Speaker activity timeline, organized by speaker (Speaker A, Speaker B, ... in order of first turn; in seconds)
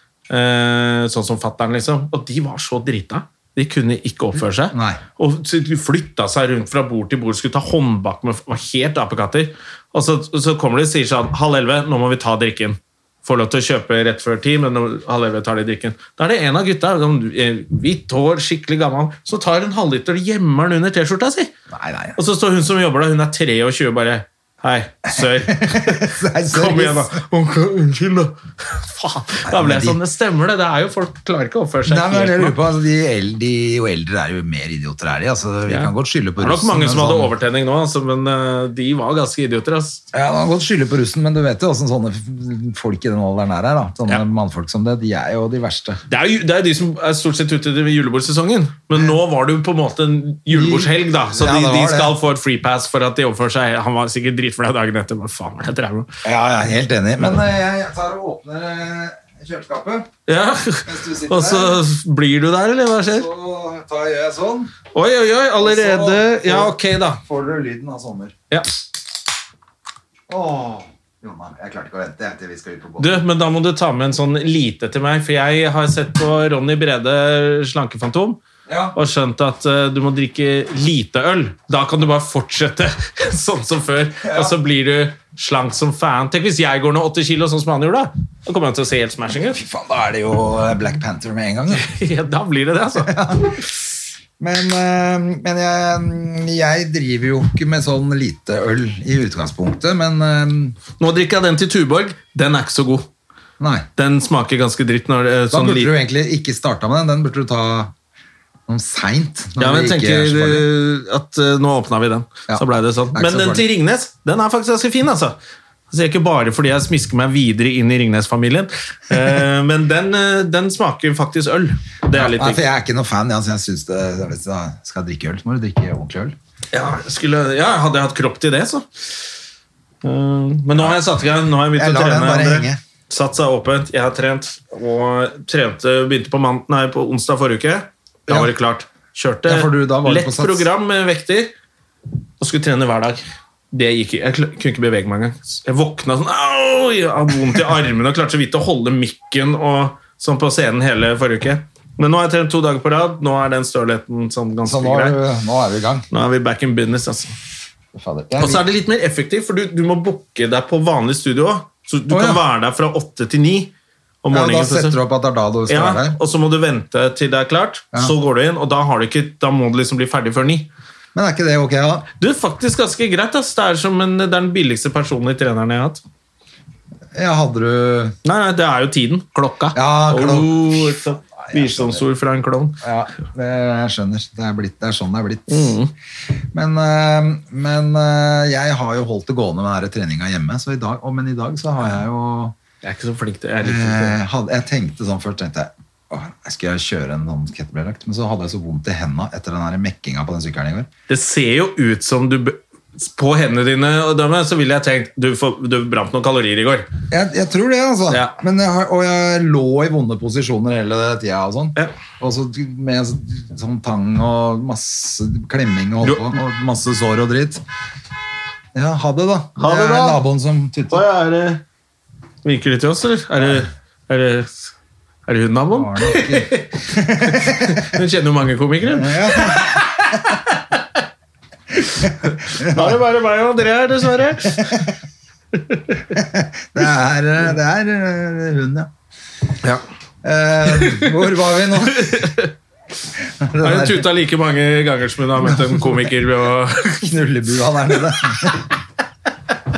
Speaker A: 0.3-21.5, 22.1-32.6, 35.7-40.0, 46.1-56.1, 60.3-63.3, 64.9-67.2, 73.0-78.4, 78.9-89.6, 91.7-93.1, 101.0-103.1, 104.0-105.9, 109.6-115.4, 115.9-122.6, 126.7-128.8, 130.0-141.5, 142.4-155.2, 156.1-157.3, 158.4-163.7, 164.2-165.0, 165.7-170.7, 172.2-176.0, 178.2-182.8, 185.5-185.9, 192.8-194.2, 201.1-206.9, 208.1-208.3, 216.0-216.3, 219.6-220.2, 220.9-221.6, 222.4-224.6, 225.3-230.8, 232.2-234.8, 235.5-236.0, 240.7-241.1, 241.8-242.5, 243.6-247.0
Speaker B: 4.7-5.0, 21.7-22.2, 25.1-27.1, 29.4-30.0, 31.9-37.3, 40.1-46.0, 50.5-52.1, 56.2-60.1, 60.8-61.8, 63.0-64.7, 65.6-68.3, 70.3-73.2, 78.7-79.0, 84.2-84.5, 89.5-91.9, 92.9-93.8, 94.4-100.8, 103.6-103.8, 105.5-107.9, 108.7-110.7, 112.5-113.6, 122.1-126.3, 130.7-131.0, 131.7-132.8, 139.4-140.7, 154.6-156.1, 157.9-158.6, 162.1-162.4, 164.3-166.2, 171.1-172.1, 177.1-178.2, 179.7-182.0, 182.8-185.8, 186.5-192.6, 193.6-200.9, 207.1-217.6, 218.7-221.1, 225.7-227.9, 228.8-229.9, 232.0-233.0, 234.5-234.9, 236.1-238.9, 240.2-242.3, 243.4-244.1, 245.4-245.9, 247.0-248.7